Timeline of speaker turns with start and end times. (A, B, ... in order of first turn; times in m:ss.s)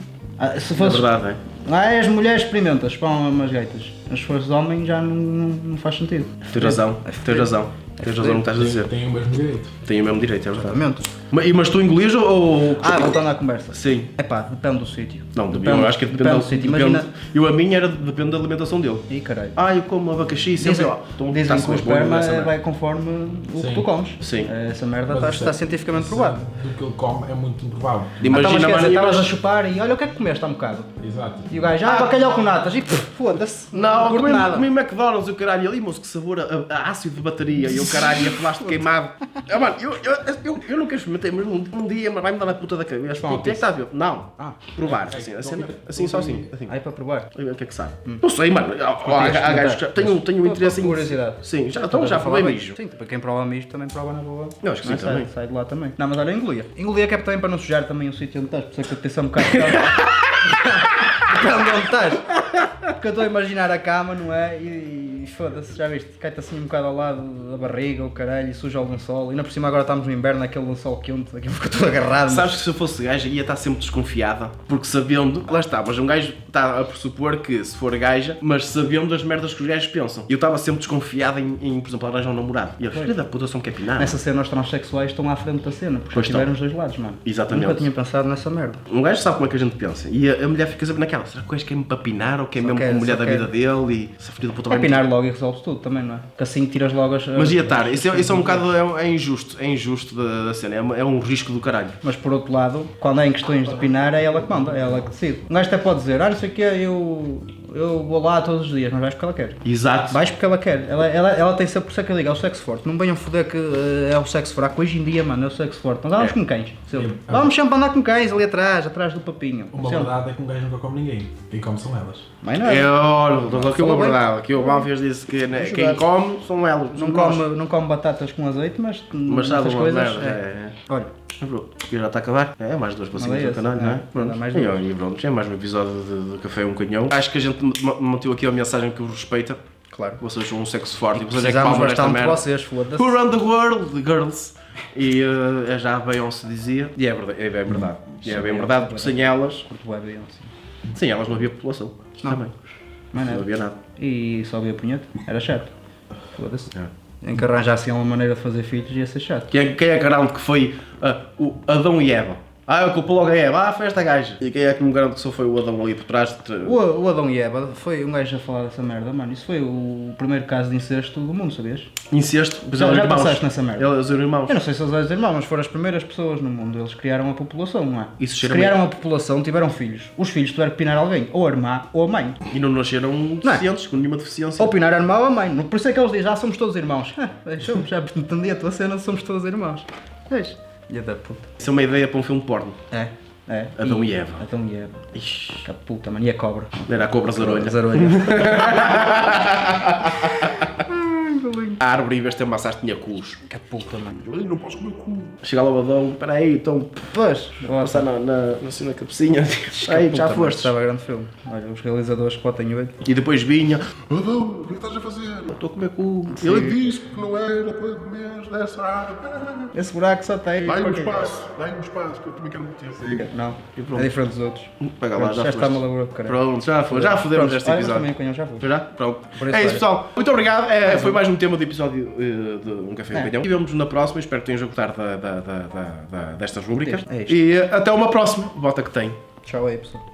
0:00.4-0:08.4 A
0:00.8-0:01.4 B
0:06.5-0:08.9 B
0:08.4-0:09.7 C
0:09.8-0:10.8 B
0:10.5-0:11.1 A
0:11.3-0:13.2 B
0:12.8-0:17.1 A
0:13.7-0:14.1 B
0:15.3-0:22.5 B
0:19.1-0:19.6 A
0:20.6-0:26.4 A
0:23.6-0:23.9 C
0:24.2-0:24.5 B
0:25.1-0:28.3 C
0:28.2-0:29.3 B
0:28.3-0:30.9 A
0:31.0-0:31.5 C
0:31.5-0:34.7 A
0:31.8-0:32.3 B
0:33.7-0:46.7 B
0:37.6-0:38.8 A
0:43.1-0:43.7 A
0:44.4-0:44.8 A
0:44.8-0:46.5 C
0:46.7-0:47.3 A
0:47.3-0:52.8 B
0:49.0-1:12.6 A
0:54.6-0:55.3 B
1:12.2-1:24.2 B
1:22.9-1:23.1 A
1:24.0-1:28.8 A
1:26.1-1:26.5 B
1:27.2-1:27.9 B
1:28.9-1:35.0 B
1:32.6-1:33.5 A
1:34.7-1:38.7 A
1:37.3-1:42.0 B
1:42.0-1:49.6 A
1:43.8-1:45.0 C
1:49.6-1:50.2 B
1:50.1-2:00.1 A
1:56.9-1:57.5 C
1:59.7-2:02.2 C
2:02.4-2:04.9 A
2:02.6-2:07.4 B
2:05.5-2:06.0 A
2:06.9-2:11.1 A
2:09.3-2:10.8 B
2:11.4-2:19.6 B
2:13.2-2:14.8 A
2:19.9-2:20.2 A
2:20.2-2:29.6 B
2:21.1-2:23.2 A
2:27.7-2:30.5 A
2:30.9-2:32.5 B
2:33.1-2:35.7 A
2:33.2-2:33.8 B
2:36.3-2:36.7 A
2:37.2-2:39.5 A
2:39.5-2:46.8 B
2:46.6-2:51.9 A
2:52.1-2:54.6 B
2:52.7-2:53.9 A
2:54.5-3:02.4 A
2:58.2-2:58.8 B
3:02.5-3:04.8 B
3:04.6-3:11.5 A
3:11.6-3:12.8 B
3:12.9-3:15.1 A
3:13.8-3:14.4 B
3:15.1-3:15.6 B
3:15.6-3:21.8 A
3:16.9-3:20.5 B
3:21.8-3:23.4 B
3:23.5-3:24.3 A
3:24.2-3:25.3 D
3:25.3-3:30.7 B
3:27.1-3:28.1 A
3:29.7-3:32.9 A
3:33.0-3:34.4 B
3:34.1-3:35.5 D
3:35.4-3:36.8 B
3:36.3-3:36.9 A
3:36.6-3:39.7 D
3:39.7-3:41.4 A
3:40.6-3:43.2 D
3:43.0-3:48.7 A
3:43.8-3:44.1 B
3:44.8-3:59.2 B
3:49.3-3:49.9 A
3:50.8-3:51.2 A
3:53.1-3:53.4 A
3:56.8-3:57.4 A
3:59.4-4:00.0 A